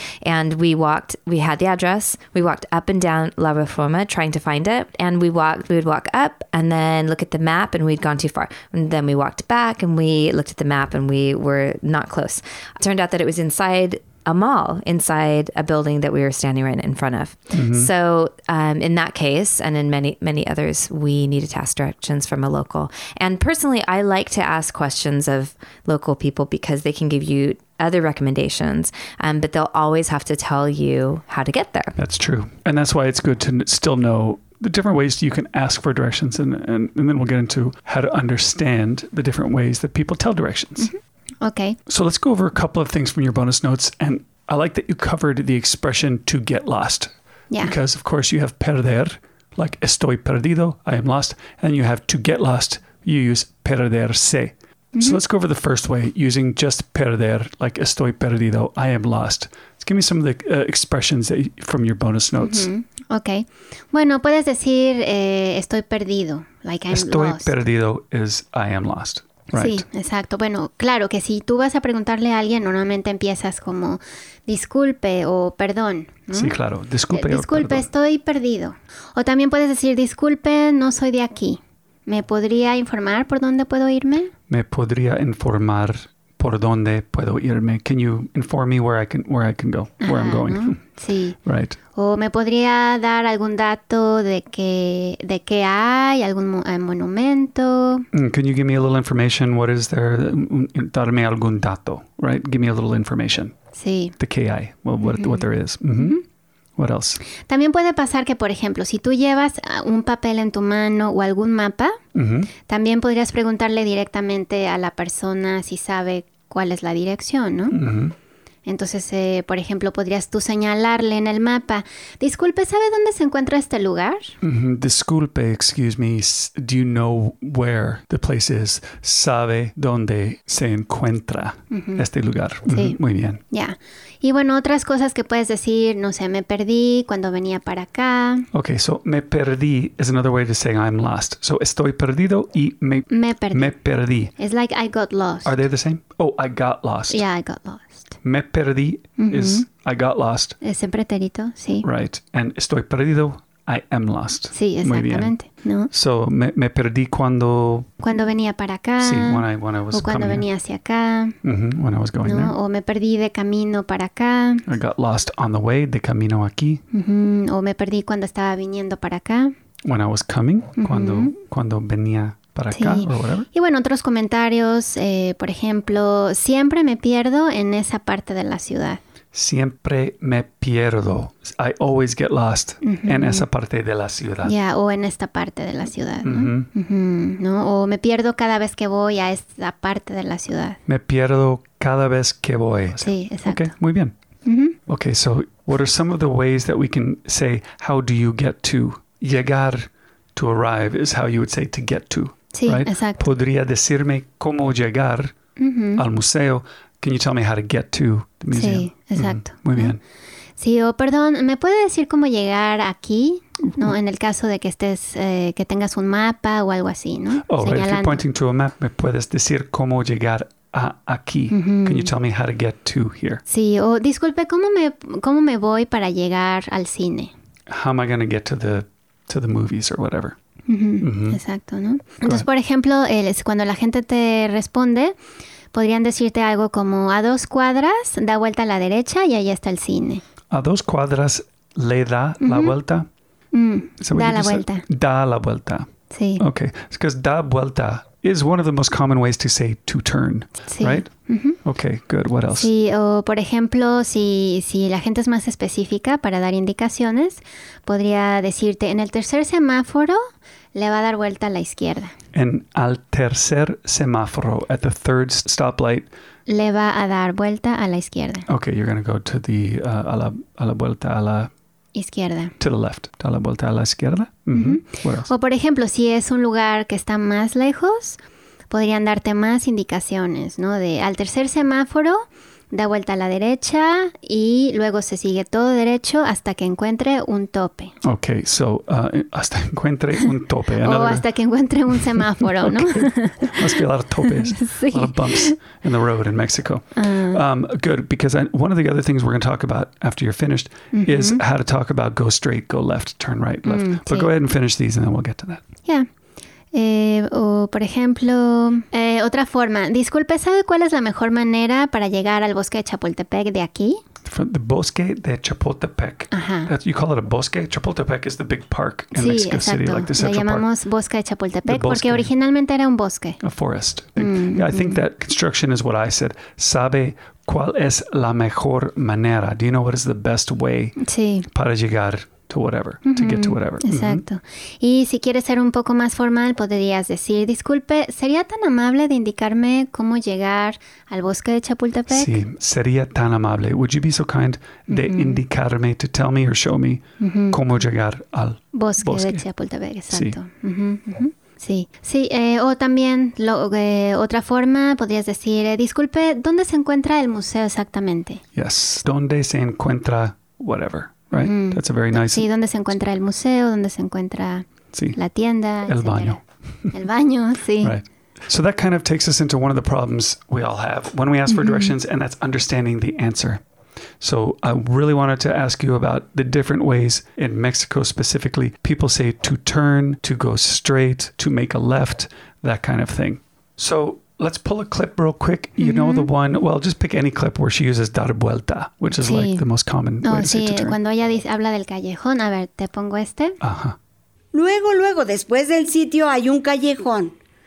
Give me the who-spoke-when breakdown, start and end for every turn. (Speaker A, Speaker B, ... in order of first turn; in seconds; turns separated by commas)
Speaker A: 0.2-31.9, Speaker B: 17.5-17.9, Speaker B: 32.0-40.9, Speaker C: 40.8-41.8, Speaker B: 41.9-62.7, Speaker C: 47.5-47.8, Speaker C: 55.0-55.2, Speaker C: 62.4-67.5, Speaker B: 66.9-69.8, Speaker C: 69.5-76.6, Speaker B: 76.3-77.9, Speaker C: 77.1-84.3, Speaker B: 84.5-90.8, Speaker C: 90.0-91.4, Speaker B: 91.5-91.8, Speaker C: 92.0-98.1, Speaker B: 98.1-103.5, Speaker C: 103.8-104.2, Speaker B: 104.2-106.2, Speaker C: 105.0-105.5, Speaker C: 106.0-106.2, Speaker B: 106.8-107.2, Speaker C: 107.5-112.0, Speaker B: 112.1-112.5, Speaker C: 112.7-117.8, Speaker B: 117.7-118.2, Speaker C: 118.7-124.3, Speaker B: 124.4-133.4, Speaker C: 131.7-132.0, Speaker C: 132.7-133.0, Speaker C: 133.5-138.5, Speaker B: 138.5-144.3, Speaker C: 143.1-143.8, Speaker C: 144.4-145.5, Speaker B: 145.4-147.2, Speaker C: 147.1-148.1, Speaker B: 148.2-150.6, Speaker C: 149.2-149.6, Speaker C: 150.6-151.9, Speaker B: 151.8-155.3, Speaker C: 154.5-155.9, Speaker B: 155.9-157.9, Speaker C: 158.0-161.4, Speaker B: 159.0-160.5, Speaker B: 161.4-162.6, Speaker C: 162.2-164.6, Speaker B: 164.7-166.8, Speaker C: 166.9-169.5, Speaker B: 169.8-173.5, Speaker C: 170.8-171.3, Speaker C: 172.7-179.0, Speaker B: 179.3-184.6, Speaker C: 182.8-183.5, Speaker C: 184.4-190.8, Speaker B: 186.2-186.7, Speaker B: 190.9-194.2, Speaker C: 193.0-193.7, Speaker C: 194.4-194.8, Speaker B: 194.9-205.3, Speaker C: 202.5-203.2, Speaker C: 205.6-206.0, Speaker B: 206.0-210.0, Speaker C: 208.5-209.9, Speaker C: 210.6-218.2, Speaker B: 217.5-223.4, Speaker C: 221.5-222.1, Speaker C: 223.5-227.3, Speaker B: 227.7-230.4, Speaker C: 230.7-235.2, Speaker B: 231.0-231.4, Speaker C: 235.7-240.2, Speaker B: 240.5-243.1, Speaker C: 242.4-242.8, Speaker C: 243.5-244.8, Speaker B: 244.0-251.1, Speaker C: 246.1-246.4, Speaker C: 250.7-251.6, Speaker B: 251.6-252.7, Speaker C: 252.5-260.2, Speaker C: 260.8-262.1, Speaker B: 262.3-266.1, Speaker C: 266.5-268.5, Speaker B: 268.5-271.5, Speaker C: 271.9-272.5, Speaker B: 272.6-275.3, Speaker C: 274.5-278.2, Speaker C: 278.7-287.9, Speaker B: 288.0-291.3, Speaker C: 290.8-295.6, Speaker B: 291.9-305.6, Speaker C: 296.9-297.4, Speaker C: 300.9-301.4, Speaker C: 303.6-304.3, Speaker C: 306.7-314.0, Speaker B: 314.2-320.7, Speaker C: 316.3-316.7, Speaker C: 319.1-323.4, Speaker B: 321.7-322.3, Speaker B: 323.4-331.0, Speaker C: 324.2-325.0, Speaker C: 331.0-331.5, Speaker B: 331.5-334.2, Speaker C: 333.0-342.4, Speaker B: 342.1-349.4, Speaker C: 344.9-345.4, Speaker C: 347.2-347.6, Speaker C: 348.7-358.4, Speaker B: 350.1-350.4, Speaker B: 358.6-362.5, Speaker C: 361.3-366.4, Speaker B: 365.9-366.9, Speaker C: 366.9-367.9, Speaker B: 367.8-373.6, Speaker C: 371.5-371.9, Speaker B: 374.2-391.0, Speaker C: 385.8-386.3, Speaker C: 389.1-389.6, Speaker C: 390.2-393.6, Speaker B: 393.6-394.0, Speaker D: 394.5-397.4